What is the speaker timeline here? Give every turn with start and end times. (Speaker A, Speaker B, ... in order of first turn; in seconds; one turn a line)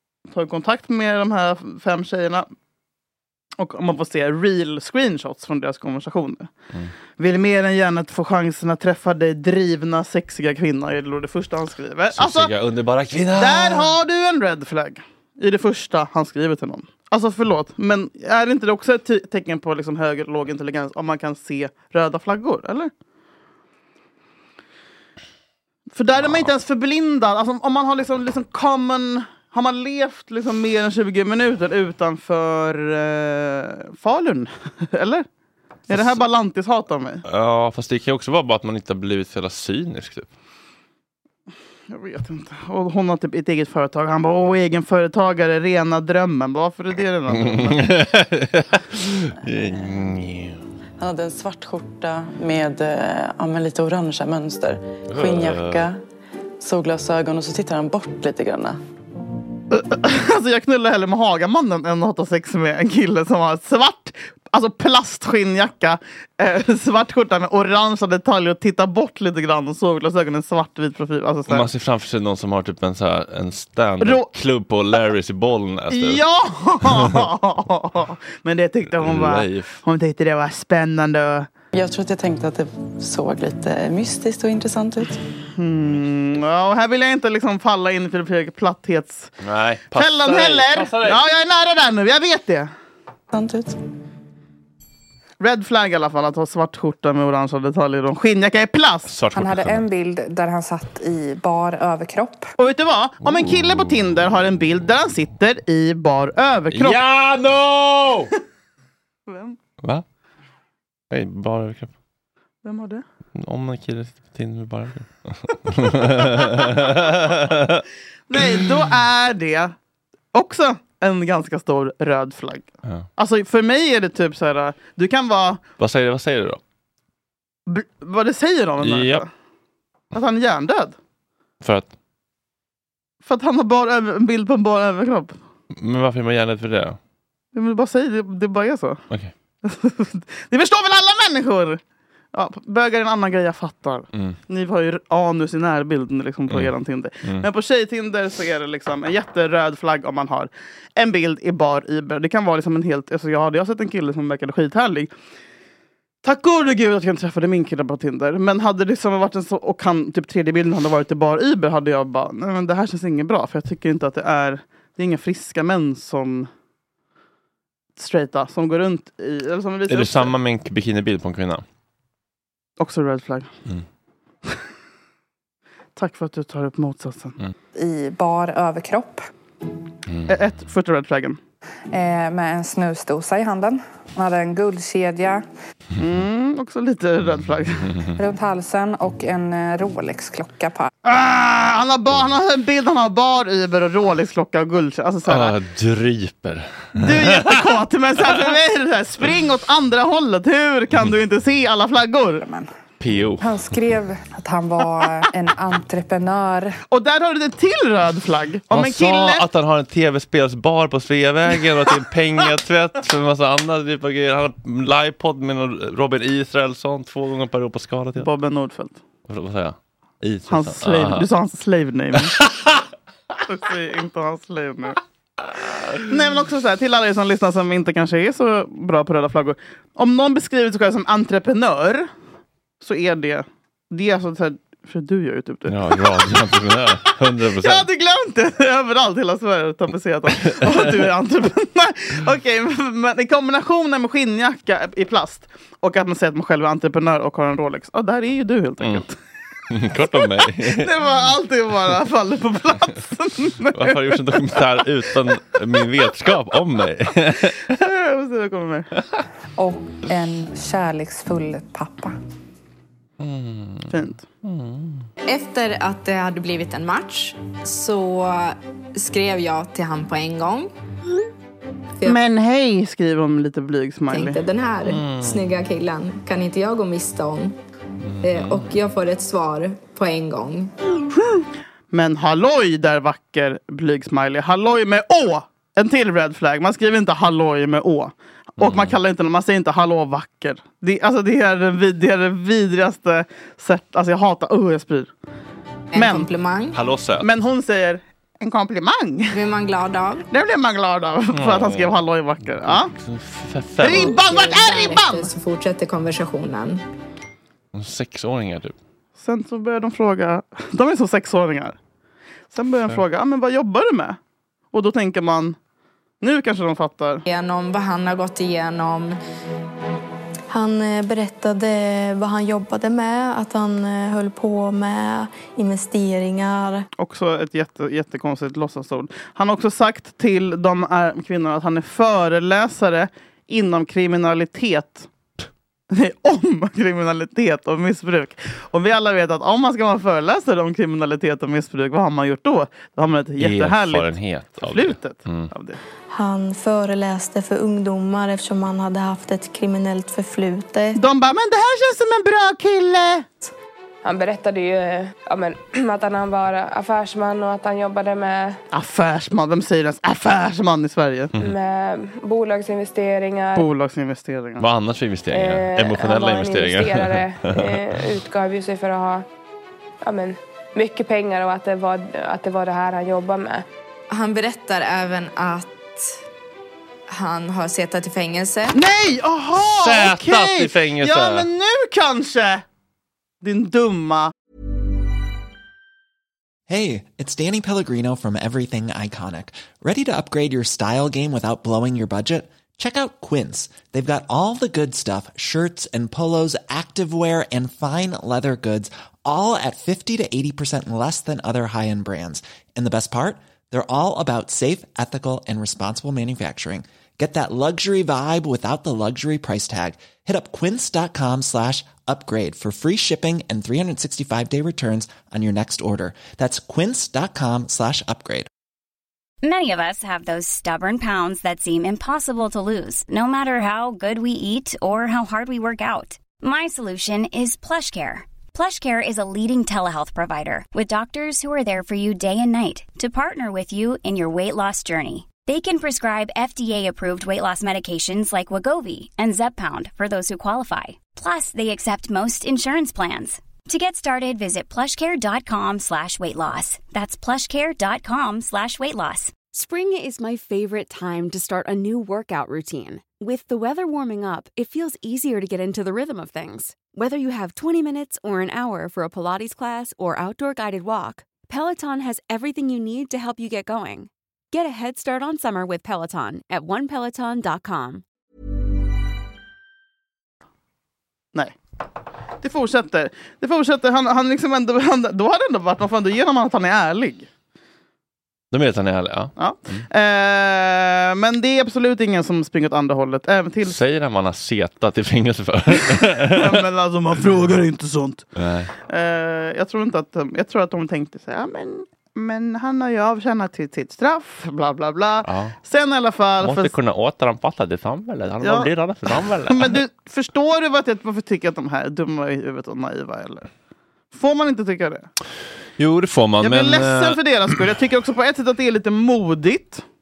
Speaker A: 0.3-2.5
Speaker A: 3.6-6.5
Speaker A: 7.2-12.5
Speaker B: 12.1-13.9
Speaker A: 13.3-22.9
Speaker A: 25.9-35.3
Speaker A: 35.9-37.2
Speaker B: 35.9-36.2
Speaker B: 37.3-40.3
Speaker A: 41.9-47.9
Speaker B: 47.3-50.6
Speaker C: 51.0-56.0
Speaker B: 55.1-55.8
Speaker C: 56.6-58.8
Speaker A: 59.7-71.7
Speaker B: 71.5-76.2
Speaker A: 74.0-74.3
Speaker A: 75.9-81.5
Speaker B: 79.0-79.8
Speaker C: 81.7-85.2
Speaker A: 85.6-89.3
Speaker B: 89.4-91.2
Speaker A: 89.9-92.7
Speaker C: 93.3-93.8
Speaker A: 95.4-99.1
Speaker B: 99.1-99.8
Speaker D: 99.3-102.5
Speaker A: 102.6-107.1
Speaker B: 106.7-108.3
Speaker A: 109.3-109.6
Speaker B: 111.1-111.9
Speaker A: 112.6-113.0
Speaker B: 113.3-117.8
Speaker A: 118.3-119.8
Speaker A: 120.3-125.6
Speaker B: 125.8-126.6
Speaker A: 127.7-129.3
Speaker B: 128.8-129.2
Speaker A: 130.1-131.0
Speaker B: 131.6-131.9
Speaker A: 133.2-135.4
Speaker B: 135.7-137.0
Speaker A: 137.5-139.0
Speaker A: 139.6-141.8
Speaker A: 142.3-155.1
Speaker A: 156.2-166.5
Speaker A: 168.0-170.3
Speaker B: 169.9-171.6
Speaker A: 172.8-173.5
Speaker A: 176.0-177.4
Speaker D: 177.8-179.3
Speaker A: 180.3-181.4
Speaker D: 181.9-185.5
Speaker A: 186.0-187.9
Speaker D: 188.2-190.9
Speaker A: 191.0-195.6
Speaker B: 195.3-197.6
Speaker A: 197.0-202.4
Speaker D: 202.4-202.7
Speaker B: 203.0-203.5
Speaker D: 203.4-206.8
Speaker A: 206.9-209.4
Speaker B: 208.7-218.3
Speaker A: 218.2-219.0
Speaker B: 219.3-221.3
Speaker A: 220.5-222.3
Speaker B: 222.4-222.7
Speaker A: 223.5-225.0
Speaker A: 226.0-232.1
Speaker A: 232.8-236.3
Speaker B: 235.7-237.9
Speaker A: 237.1-249.2
Speaker B: 240.4-240.9
Speaker B: 249.7-250.9
Speaker A: 250.1-254.2
Speaker B: 253.7-257.7
Speaker A: 257.7-258.9
Speaker D: 259.6-262.2
Speaker B: 263.2-265.1
Speaker A: 263.9-264.2
Speaker E: 265.3-270.7
Speaker A: 272.0-274.4
Speaker E: 274.1-277.6
Speaker B: 274.9-275.4
Speaker B: 278.0-278.7
Speaker E: 278.2-280.7
Speaker A: 281.4-295.1
Speaker B: 288.6-289.0
Speaker E: 295.9-296.8
Speaker A: 295.9-296.3
Speaker B: 296.7-297.3
Speaker A: 297.2-299.4
Speaker E: 299.3-300.2
Speaker A: 300.3-302.9
Speaker B: 301.3-302.0
Speaker B: 302.6-304.2
Speaker A: 303.8-305.3
Speaker E: 303.9-306.8
Speaker B: 307.7-308.8
Speaker A: 309.2-311.8
Speaker A: 312.5-314.2
Speaker A: 314.7-315.6
Speaker A: 316.2-317.2
Speaker E: 317.3-319.2
Speaker F: 320.5-326.9
Speaker A: 327.0-335.1
Speaker A: 335.9-345.8
Speaker B: 343.4-345.5
Speaker F: 346.1-351.0
Speaker A: 351.0-353.3
Speaker G: 354.1-358.6
Speaker A: 358.7-361.3
Speaker G: 361.4-363.7
Speaker A: 363.6-364.6
Speaker B: 364.6-368.0
Speaker G: 365.3-369.2
Speaker G: 370.1-373.6
Speaker E: 374.1-376.2
Speaker E: 377.1-378.8
Speaker A: 378.7-382.6
Speaker B: 379.6-381.5
Speaker A: 383.4-384.3
Speaker H: 386.7-418.5
Speaker I: 419.4-449.4
Speaker J: 449.5-468.0
Speaker A: 472.4-477.3
Speaker B: 478.5-479.9
Speaker A: 479.4-483.8
Speaker B: 483.6-486.6
Speaker A: 486.4-488.3
Speaker B: 488.4-488.7
Speaker A: 488.9-496.7
Speaker B: 495.2-495.6
Speaker B: 496.4-499.8
Speaker A: 498.4-498.7
Speaker A: 499.5-503.5
Speaker A: 504.1-505.1
Speaker B: 505.8-507.2
Speaker A: 506.4-509.8